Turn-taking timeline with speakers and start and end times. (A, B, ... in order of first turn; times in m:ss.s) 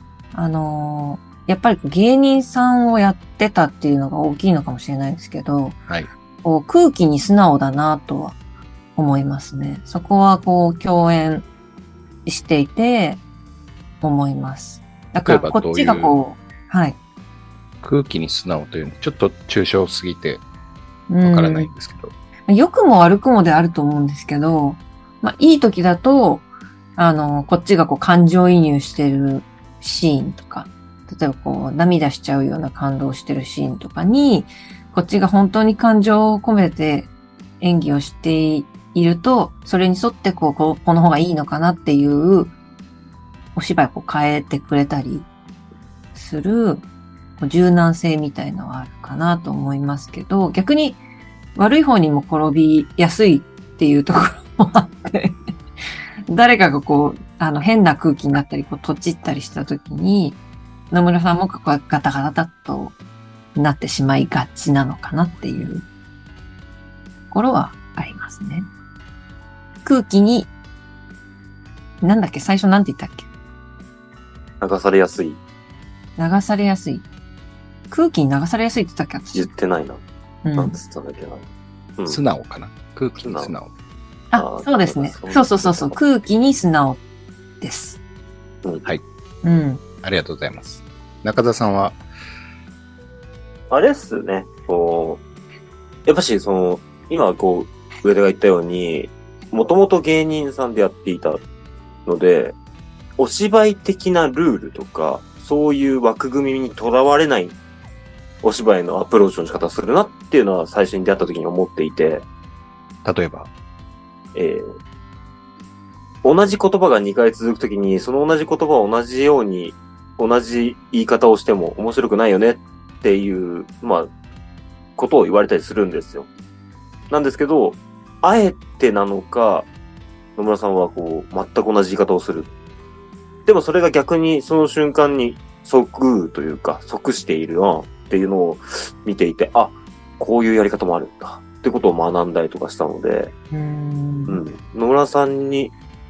0:00.3-0:05.8 A
0:06.4-0:08.4 A
0:09.0-0:11.5 A
0:12.2-0:13.2 A
0:14.0-0:17.0 A
0:15.2-0:16.1 B
0:17.8-0:20.4 B
0:21.1-0:21.7 A
0:21.2-0:22.1 B
0:22.5-0:42.5 A
0:43.5-0:45.3 A
0:46.1-0:46.8 A
0:47.4-0:51.0 A
0:51.6-0:55.4 A
0:56.3-1:00.4 A
1:00.9-1:03.0 A
1:03.6-1:05.9 A
1:07.3-1:08.7 A
1:09.8-1:10.5 A
1:12.0-1:13.3 A
1:14.6-1:15.4 C
1:16.2-1:17.0 A
1:17.9-1:19.5 A
1:19.3-1:20.0 C
1:20.4-1:20.8 A
1:20.6-1:21.4 C
1:22.1-1:23.7 B
1:23.2-1:23.5 C
1:24.3-1:27.0 A
1:24.3-1:26.0 C
1:27.6-1:28.0 A
1:29.4-1:29.8 A
1:30.0-1:32.0 B
1:33.7-1:35.2 C
1:36.0-1:41.4 C
1:42.0-1:42.6 C
1:43.2-1:47.6 C
1:48.4-1:52.2 C
1:53.0-1:53.5 B
1:54.4-1:54.7 C
1:56.2-2:04.1 C
2:05.0-2:06.3 C
2:07.1-2:09.7 C
2:10.4-2:12.5 C
2:13.5-2:23.3 C
2:23.5-2:24.4 A
2:24.3-2:25.7 C